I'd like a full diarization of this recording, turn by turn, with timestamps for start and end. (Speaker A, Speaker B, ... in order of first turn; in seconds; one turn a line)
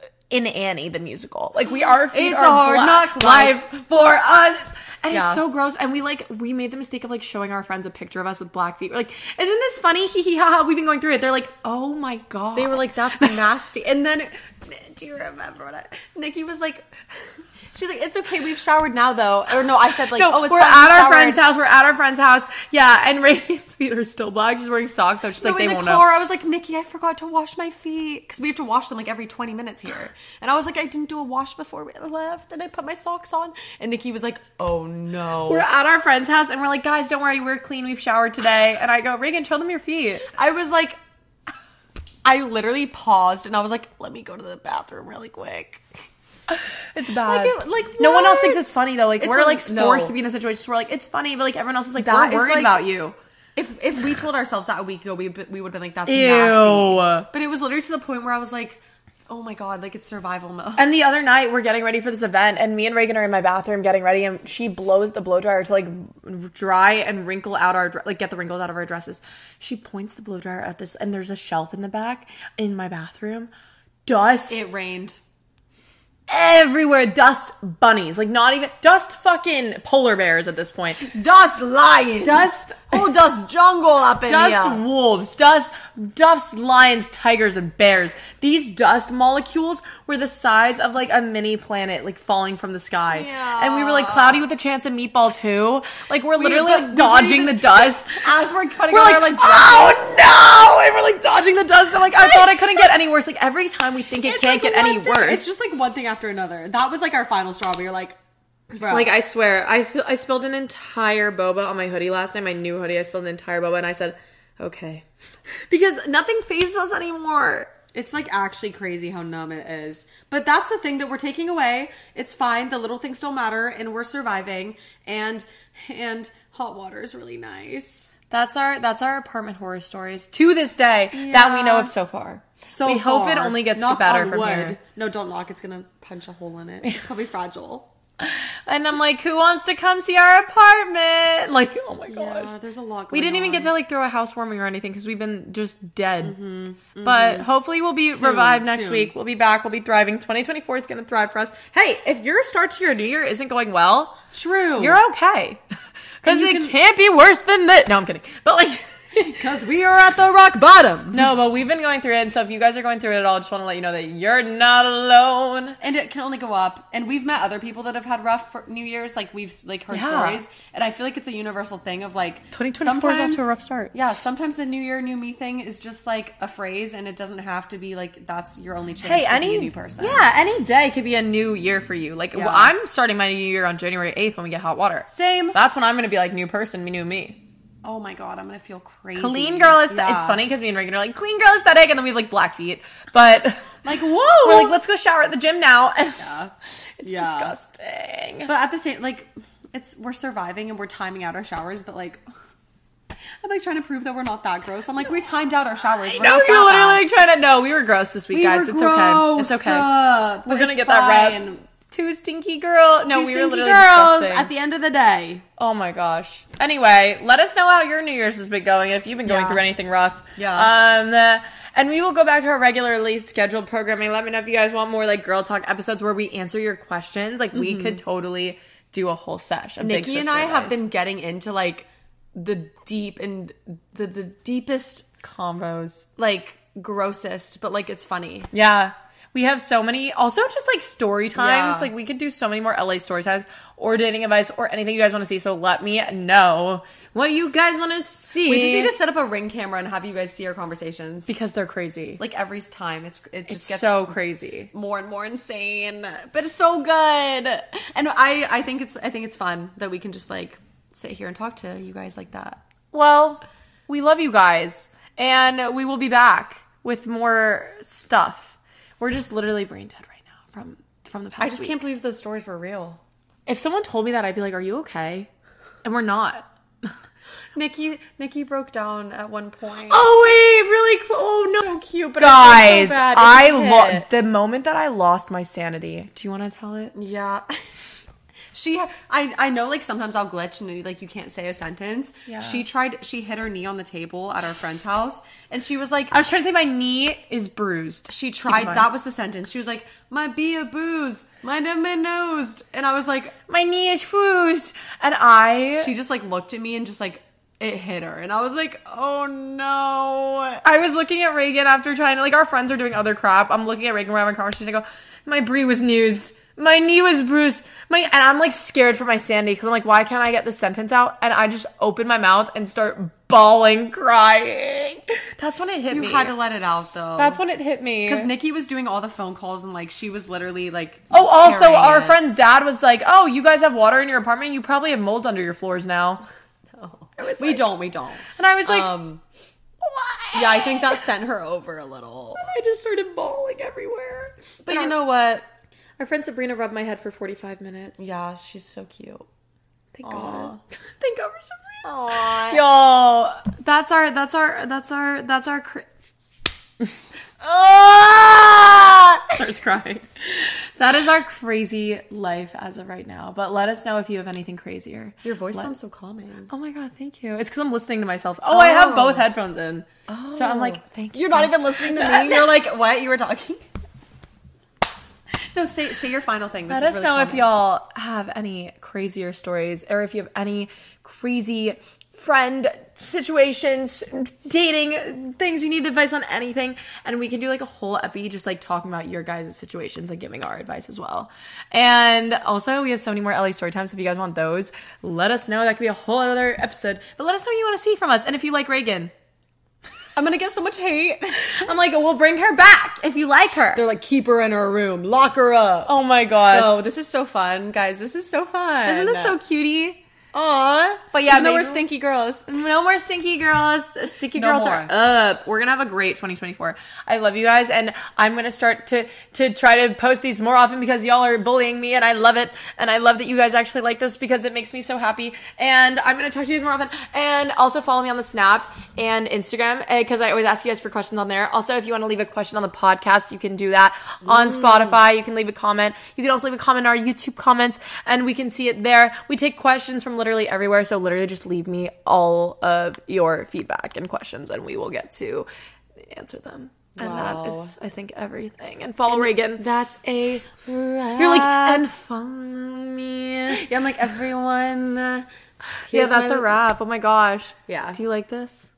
Speaker A: 0.3-13.4
Speaker B: 2.1-5.4
Speaker B: 12.5-16.9
Speaker B: 17.7-21.4
Speaker A: 20.1-26.1
Speaker B: 25.4-35.6
Speaker A: 35.5-40.3
Speaker B: 40.3-41.0
Speaker B: 42.2-45.8
Speaker A: 46.5-53.1
Speaker B: 47.2-50.1
Speaker B: 52.0-52.9
Speaker B: 53.5-60.9
Speaker A: 56.1-57.3
Speaker A: 60.8-73.5
Speaker A: 74.0-74.6
Speaker B: 74.5-75.2
Speaker A: 76.3-81.0
Speaker B: 81.0-84.8
Speaker A: 82.2-83.0
Speaker A: 84.2-98.2
Speaker B: 93.1-94.4
Speaker B: 96.4-100.2
Speaker A: 98.9-105.4
Speaker B: 102.2-102.9
Speaker B: 104.2-108.2
Speaker B: 108.7-109.1
Speaker A: 108.8-115.0
Speaker A: 115.7-117.7
Speaker B: 117.9-128.1
Speaker A: 128.3-134.8
Speaker B: 131.1-131.9
Speaker B: 132.7-137.9
Speaker A: 138.2-142.5
Speaker B: 142.1-143.7
Speaker A: 143.1-146.3
Speaker B: 146.2-147.5
Speaker A: 147.0-154.2
Speaker B: 148.1-149.1
Speaker B: 154.3-155.0
Speaker A: 154.8-155.6
Speaker A: 156.2-159.4
Speaker B: 156.2-156.8
Speaker B: 159.2-161.3
Speaker A: 161.1-165.8
Speaker B: 165.8-180.2
Speaker A: 169.9-170.4
Speaker A: 172.5-173.9
Speaker A: 179.0-187.4
Speaker B: 182.3-182.7
Speaker B: 185.1-185.6
Speaker B: 187.8-190.4
Speaker A: 189.2-193.8
Speaker B: 193.8-194.8
Speaker A: 194.4-196.3
Speaker B: 196.2-197.5
Speaker A: 197.0-198.5
Speaker B: 198.4-202.2
Speaker B: 203.4-207.1
Speaker A: 206.1-209.9
Speaker B: 208.3-211.6
Speaker A: 210.4-214.5
Speaker B: 213.1-215.4
Speaker A: 215.6-230.8
Speaker B: 219.2-219.6
Speaker B: 220.3-220.7
Speaker B: 227.5-228.0
Speaker B: 229.8-235.2
Speaker A: 235.2-236.1
Speaker B: 236.2-238.5
Speaker A: 238.5-248.9
Speaker B: 241.3-241.9
Speaker B: 248.4-251.3
Speaker A: 251.3-252.2
Speaker B: 252.2-254.2
Speaker A: 253.5-254.7
Speaker B: 254.7-262.6
Speaker A: 262.9-271.8
Speaker B: 271.4-273.0
Speaker A: 273.4-275.3
Speaker A: 275.8-276.4
Speaker B: 277.5-280.1
Speaker A: 279.9-286.9
Speaker B: 281.6-284.1
Speaker B: 286.9-287.5
Speaker B: 288.5-296.1
Speaker A: 292.3-292.6
Speaker A: 296.1-298.9
Speaker B: 298.1-303.3
Speaker A: 303.5-305.9
Speaker B: 305.8-310.6
Speaker A: 310.6-326.3
Speaker B: 325.9-327.4
Speaker A: 327.2-328.3
Speaker B: 328.1-332.2
Speaker A: 331.1-336.2
Speaker B: 336.8-339.2
Speaker A: 337.2-338.9
Speaker A: 339.8-341.0
Speaker B: 340.3-342.5
Speaker A: 342.4-344.9
Speaker B: 344.6-345.5
Speaker A: 346.0-348.1
Speaker B: 348.0-349.2
Speaker A: 349.9-355.9
Speaker B: 350.0-350.5
Speaker B: 351.8-352.6
Speaker B: 357.4-359.4
Speaker A: 359.3-365.7
Speaker B: 365.2-366.5
Speaker A: 366.5-372.6
Speaker B: 368.5-369.3
Speaker B: 370.1-373.6
Speaker B: 375.5-377.5
Speaker A: 376.7-399.1
Speaker B: 400.1-401.6
Speaker A: 401.5-403.8
Speaker B: 403.7-409.4
Speaker A: 405.9-406.8
Speaker A: 408.8-410.0
Speaker B: 410.3-412.5
Speaker A: 411.1-411.8
Speaker A: 412.5-445.5
Speaker B: 414.3-414.9
Speaker B: 434.2-435.0
Speaker A: 446.0-449.6
Speaker B: 446.9-447.7
Speaker B: 449.1-451.8
Speaker A: 451.2-453.6
Speaker B: 453.5-455.2
Speaker B: 455.9-456.6
Speaker A: 455.9-458.7
Speaker B: 457.7-458.0